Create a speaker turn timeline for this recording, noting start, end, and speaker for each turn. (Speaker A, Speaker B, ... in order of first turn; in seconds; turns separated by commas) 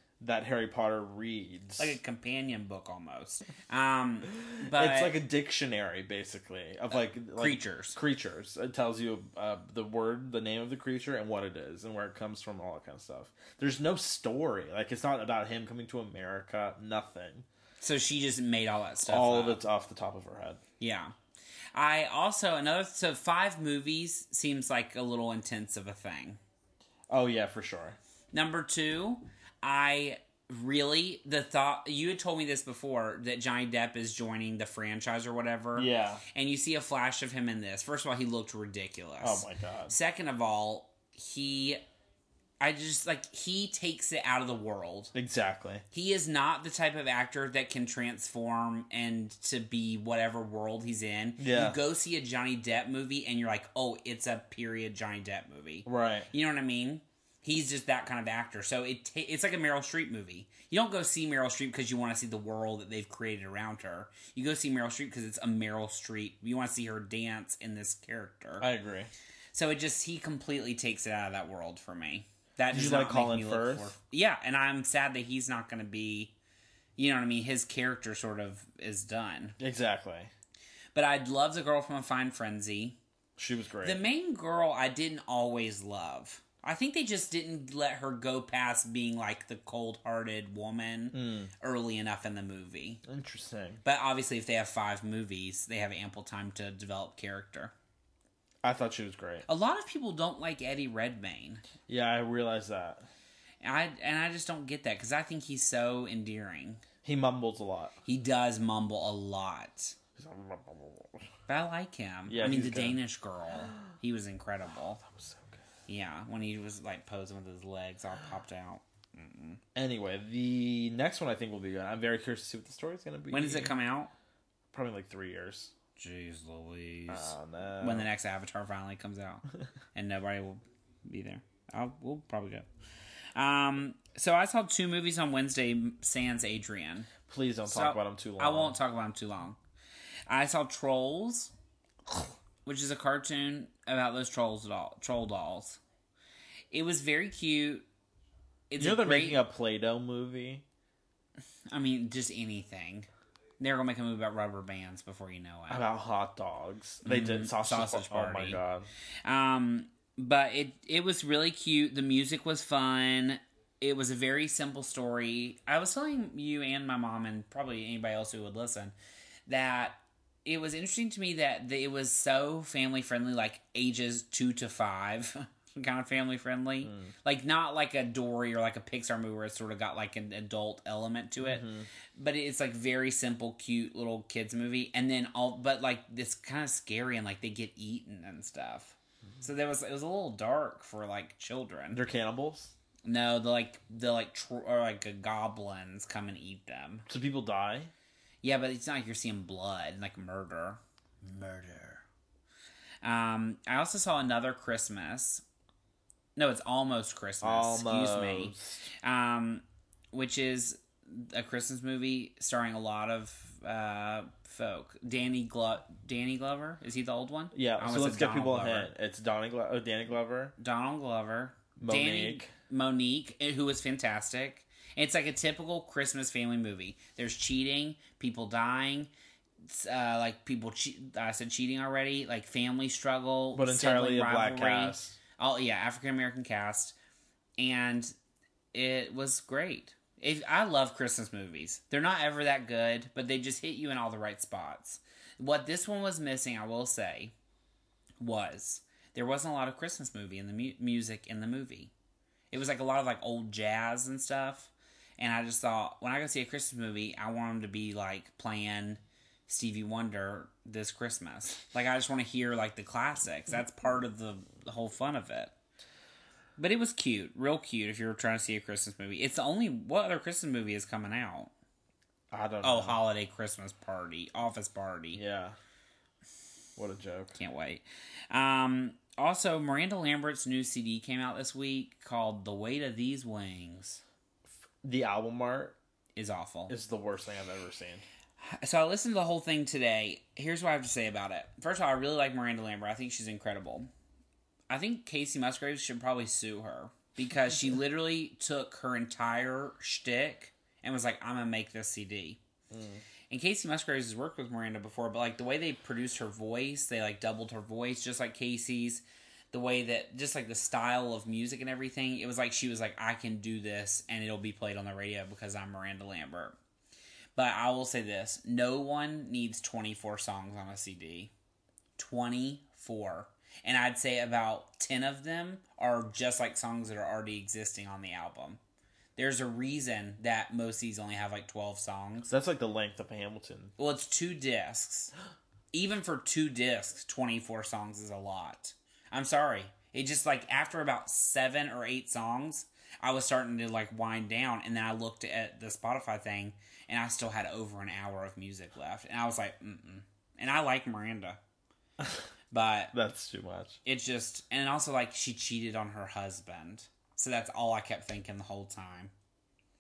Speaker A: 0.2-2.0, Speaker B: 1.8-5.2, Speaker A: 4.6-17.5, Speaker B: 6.9-8.0, Speaker B: 17.8-19.6, Speaker A: 19.1-20.6, Speaker B: 20.8-21.1, Speaker B: 21.7-26.4, Speaker A: 27.1-28.0, Speaker B: 28.3-41.8, Speaker A: 35.8-36.2, Speaker A: 39.2-39.9, Speaker B: 42.6-45.1, Speaker A: 45.1-45.8, Speaker B: 45.9-68.7, Speaker A: 51.4-51.8, Speaker A: 55.9-56.3, Speaker A: 68.6-69.1, Speaker B: 69.5-76.3, Speaker A: 72.7-74.0, Speaker B: 77.0-79.6, Speaker A: 79.6-80.3, Speaker B: 80.9-83.0, Speaker A: 83.4-84.0, Speaker B: 83.8-93.0, Speaker A: 91.1-91.5, Speaker A: 93.0-93.8, Speaker B: 93.8-97.7, Speaker A: 98.6-99.5, Speaker B: 99.5-101.6, Speaker A: 101.9-103.1, Speaker B: 103.6-106.8, Speaker A: 107.0-108.0, Speaker B: 108.0-110.0, Speaker A: 110.2-111.2, Speaker B: 111.5-115.0, Speaker A: 112.3-113.0, Speaker A: 115.0-115.6, Speaker B: 115.9-119.6, Speaker A: 119.8-123.8, Speaker B: 123.3-124.1, Speaker A: 124.7-125.7, Speaker B: 126.0-129.4, Speaker A: 127.1-128.1, Speaker B: 129.9-132.7, Speaker B: 133.3-137.1, Speaker A: 137.3-138.8, Speaker B: 137.7-139.6, Speaker B: 140.3-141.5, Speaker B: 142.7-145.8, Speaker B: 146.7-147.8, Speaker B: 148.7-149.4, Speaker A: 148.8-150.6, Speaker B: 151.7-153.1, Speaker B: 153.6-155.8, Speaker A: 155.7-158.9, Speaker B: 157.1-158.6, Speaker B: 159.2-168.9, Speaker B: 169.5-192.0, Speaker A: 176.8-177.1, Speaker A: 181.4-181.9, Speaker A: 191.9-192.7, Speaker B: 193.1-197.1, Speaker A: 197.1-197.9, Speaker B: 198.4-200.8, Speaker A: 201.2-202.0, Speaker B: 203.0-205.4, Speaker B: 206.4-218.9, Speaker A: 207.4-208.8, Speaker A: 217.5-220.6, Speaker B: 220.6-229.1, Speaker A: 221.8-222.5, Speaker B: 229.6-236.9, Speaker A: 233.5-235.2, Speaker B: 237.6-238.1, Speaker B: 238.7-247.3, Speaker B: 248.2-251.9, Speaker B: 252.5-265.5, Speaker B: 266.6-271.5, Speaker A: 272.3-273.0, Speaker B: 272.6-275.2, Speaker A: 275.1-275.6, Speaker A: 276.8-277.4, Speaker B: 277.4-284.0, Speaker A: 284.8-285.8, Speaker B: 286.2-286.7, Speaker A: 286.7-288.0, Speaker B: 288.4-293.9, Speaker B: 294.7-302.4, Speaker A: 302.7-303.0, Speaker B: 303.3-316.6, Speaker B: 317.4-321.3, Speaker B: 322.0-328.6, Speaker B: 329.2-332.3, Speaker A: 332.3-333.7, Speaker B: 333.8-335.1, Speaker B: 335.7-351.4, Speaker B: 352.5-352.9, Speaker A: 352.9-353.8, Speaker B: 353.9-359.1